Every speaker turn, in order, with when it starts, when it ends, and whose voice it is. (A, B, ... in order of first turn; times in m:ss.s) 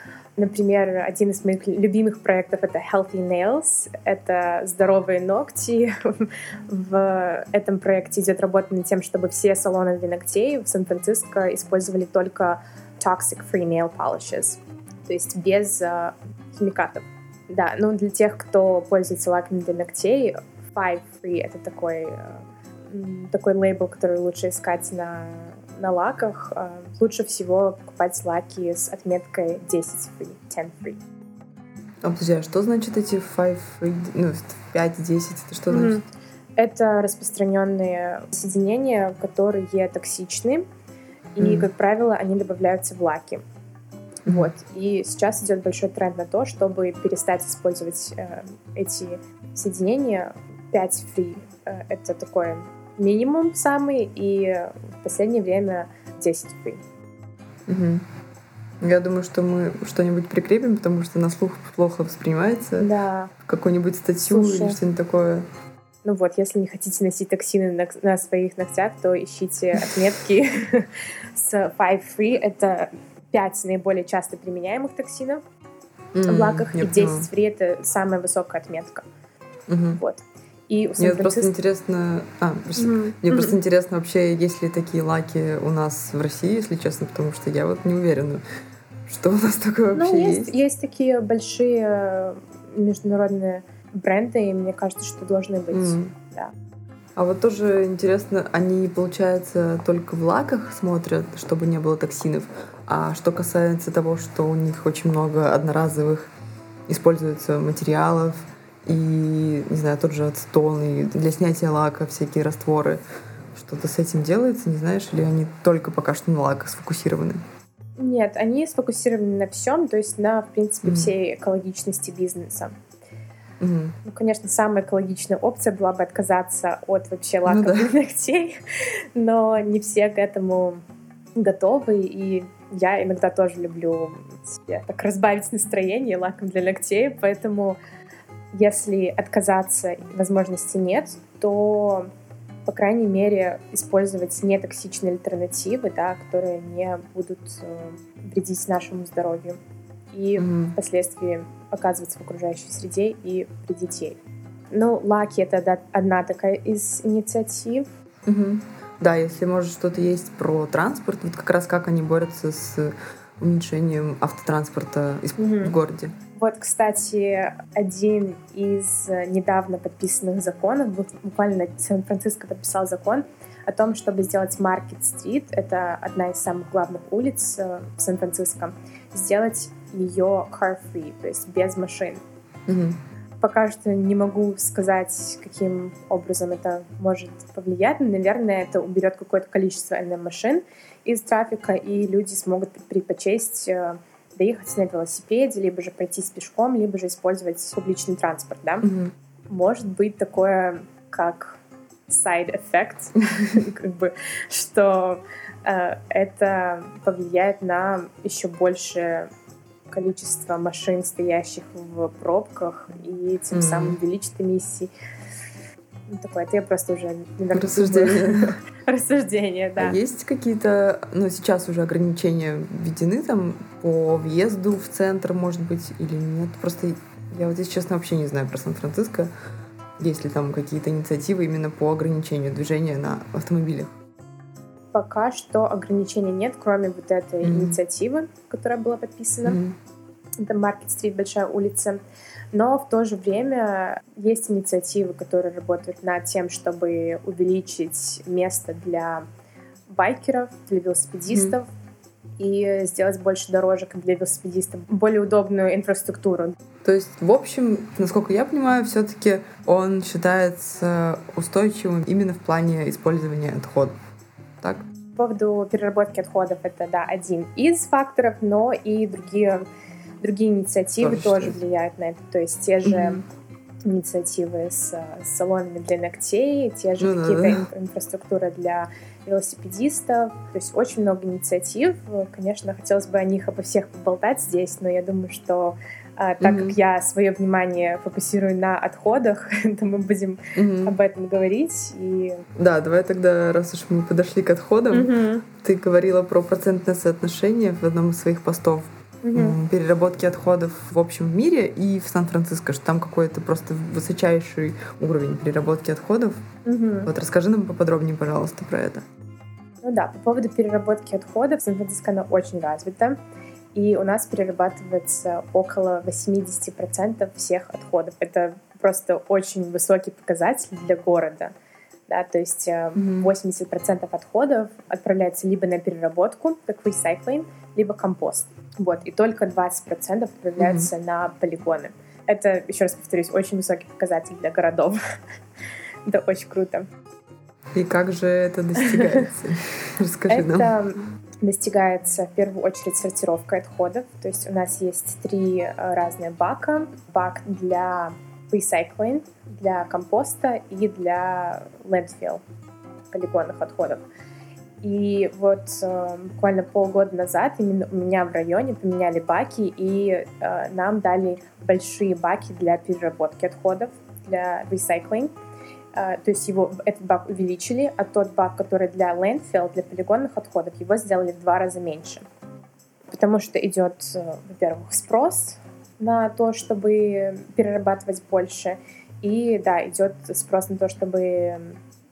0:00.4-0:31.0 A
0:32.0-0:36.0 B
0:35.7-0:36.0 A
0:36.6-0:40.7 A
0:41.3-0:43.4 A
0:41.4-0:41.7 B
0:44.2-0:56.8 A
0:57.7-0:58.0 B
0:58.8-1:02.9 B
1:02.8-1:03.3 A
1:03.4-1:05.5 B
1:04.3-1:04.8 A
1:06.0-1:15.4 A
1:16.1-1:17.3 B
1:16.2-1:19.0 A
1:19.7-1:20.0 B
1:20.0-1:21.5 A
1:21.0-1:28.4 B
1:22.8-1:23.6 A
1:29.0-1:30.6 B
1:29.9-1:36.5 A
1:35.7-1:36.1 B
1:37.2-1:46.3 B
1:46.9-1:53.0 B
1:53.5-1:57.4 B
1:58.0-2:02.7 A
2:00.8-2:01.1 B
2:03.6-2:04.0 B
2:04.0-2:10.8 A
2:07.4-2:07.9 B
2:11.4-2:17.8 A
2:18.5-2:22.1 A
2:22.7-2:29.6 A
2:30.1-2:34.2 A
2:30.4-2:30.8 B
2:34.7-2:37.8 A
2:38.2-2:46.1 B
2:45.4-2:45.7 A
2:46.4-3:02.2 A
3:02.7-3:03.0 B
3:03.4-3:18.9 A
3:18.8-3:19.1 B
3:19.5-3:21.6 A
3:22.1-3:29.3 A
3:29.9-3:34.9 A
3:33.5-3:34.0 B
3:36.1-3:40.0 A
3:37.5-3:38.6 B
3:39.8-3:49.3 B
3:50.0-3:54.0 B
3:54.9-3:59.6 A
3:57.4-3:57.7 B
3:59.4-3:59.7 B
4:00.4-4:02.0 A
4:02.5-4:09.2 A
4:09.9-4:11.7 A
4:12.4-4:16.6 A
4:16.8-4:23.9 B
4:25.2-4:29.6 A
4:30.2-4:33.2 A
4:31.0-4:31.6 B
4:32.8-4:33.2 B
4:33.8-4:52.4 A
4:37.0-4:37.7 B
4:46.4-4:46.7 B
4:50.5-4:51.0 B
4:52.6-5:06.4 B
4:54.9-4:55.4 A
4:59.2-4:59.6 A
5:06.6-5:07.1 A
5:07.0-5:09.0 B
5:09.8-5:13.2 A
5:13.7-5:21.5 A
5:22.1-5:35.0 A
5:23.0-5:23.3 B
5:30.6-5:30.9 B
5:36.0-5:36.9 A
5:37.7-5:40.7 B
5:38.8-5:39.2 A
5:40.3-5:52.4 A
5:53.1-5:54.0 A
5:54.8-6:05.3 A
6:05.9-6:12.2 A
6:13.1-6:21.8 A